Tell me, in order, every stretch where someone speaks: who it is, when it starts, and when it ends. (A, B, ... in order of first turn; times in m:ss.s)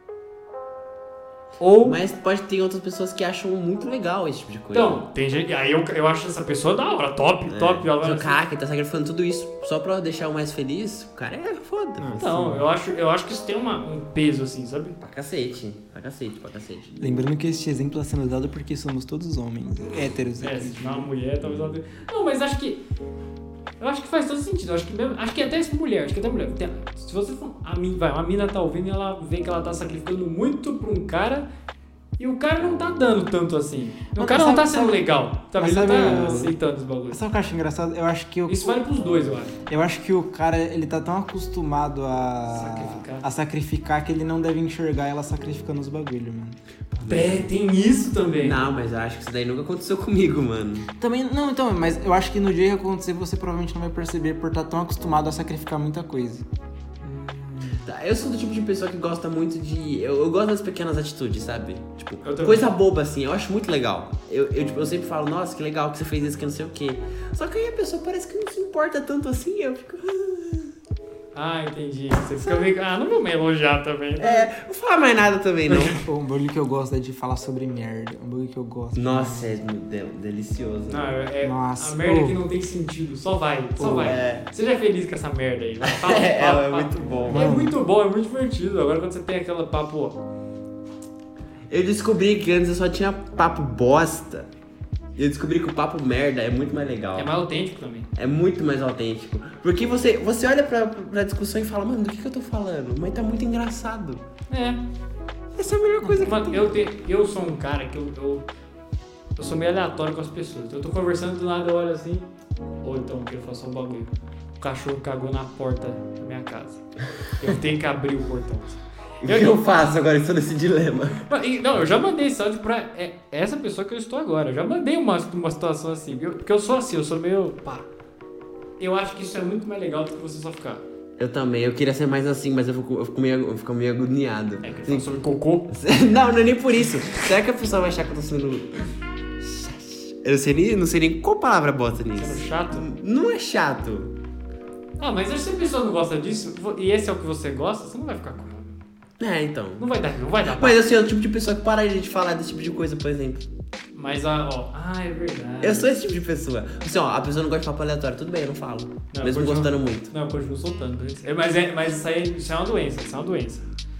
0:01.6-0:02.0 A
0:01.8-0:05.0 B
0:04.7-0:08.4 A
0:07.5-0:12.2 B
0:12.0-0:12.6 C
0:12.2-0:15.0 A
0:15.0-0:17.0 B
0:17.0-0:21.1 C
0:20.4-0:22.8 A
0:23.8-0:31.5 A
0:32.2-0:37.2 A
0:34.1-0:36.5 C
0:36.0-0:36.5 B
0:37.1-0:38.8 C
0:38.5-0:39.5 A
0:39.7-0:46.6 C
0:42.5-0:43.2 A
0:46.9-0:47.5 B
0:47.0-0:48.6 A
0:48.4-0:50.9 B
0:51.0-0:56.4 C
0:57.0-0:57.8 A
0:57.8-1:10.7 B
1:02.2-1:02.7 A
1:11.3-1:14.5 A
1:14.2-1:16.0 B
1:15.7-1:16.0 A
1:16.0-1:19.5 C
1:18.9-1:21.1 B
1:20.9-1:30.2 A
1:21.4-1:22.4 C
1:23.8-1:24.2 C
1:24.0-1:24.4 B
1:25.8-1:27.5 B
1:27.3-1:27.8 C
1:31.7-1:34.5 B
1:35.2-1:37.3 B
1:37.2-1:38.1 A
1:38.1-1:44.2 B
1:44.5-1:44.8 A
1:45.6-1:46.8 B
1:46.0-1:46.3 C
1:46.1-1:48.4 A
1:49.4-1:52.3 A
1:52.8-1:56.8 A
1:57.4-1:59.6 A
1:59.2-2:01.2 B
2:01.3-2:07.9 A
2:08.8-2:10.8 A
2:11.2-2:18.8 B
2:14.6-2:15.7 A
2:19.4-2:24.1 B
2:22.2-2:22.9 A
2:25.0-2:28.8 A
2:29.2-2:29.8 B
2:29.8-2:30.8 A
2:30.5-2:33.4 B
2:33.9-2:35.9 A
2:35.6-2:40.1 B
2:39.1-2:43.6 A